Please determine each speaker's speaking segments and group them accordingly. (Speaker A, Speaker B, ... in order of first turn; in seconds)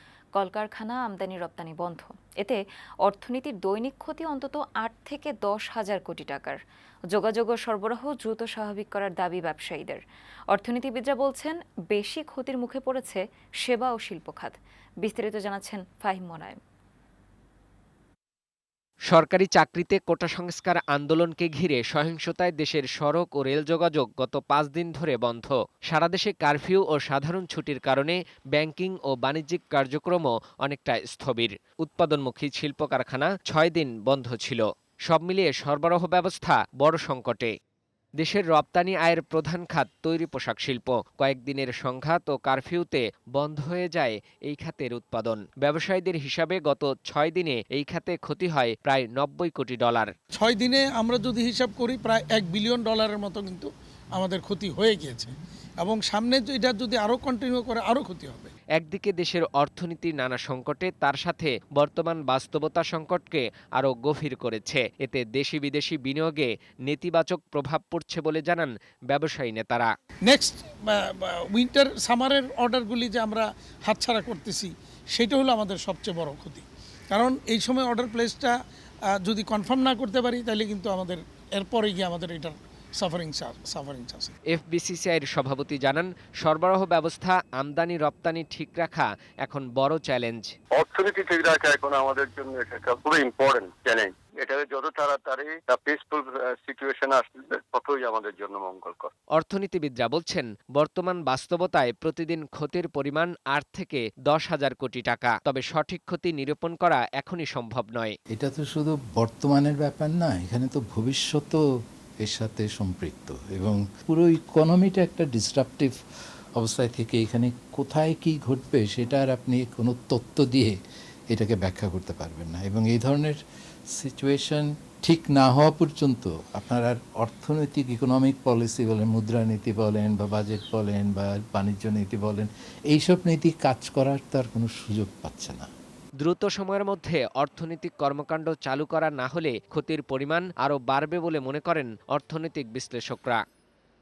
Speaker A: 0.3-6.6, 7.1-16.6
Speaker B: 19.1-37.5, 38.2-50.1, 58.8-69.9, 84.5-90.5, 99.3-108.1, 136.2-143.4
Speaker C: 50.4-58.5, 70.3-78.5, 79.2-84.3
Speaker D: 90.7-99.1
Speaker E: 108.3-111.6, 112.2-116.0, 116.6-120.8, 121.3-123.4, 124.0-135.7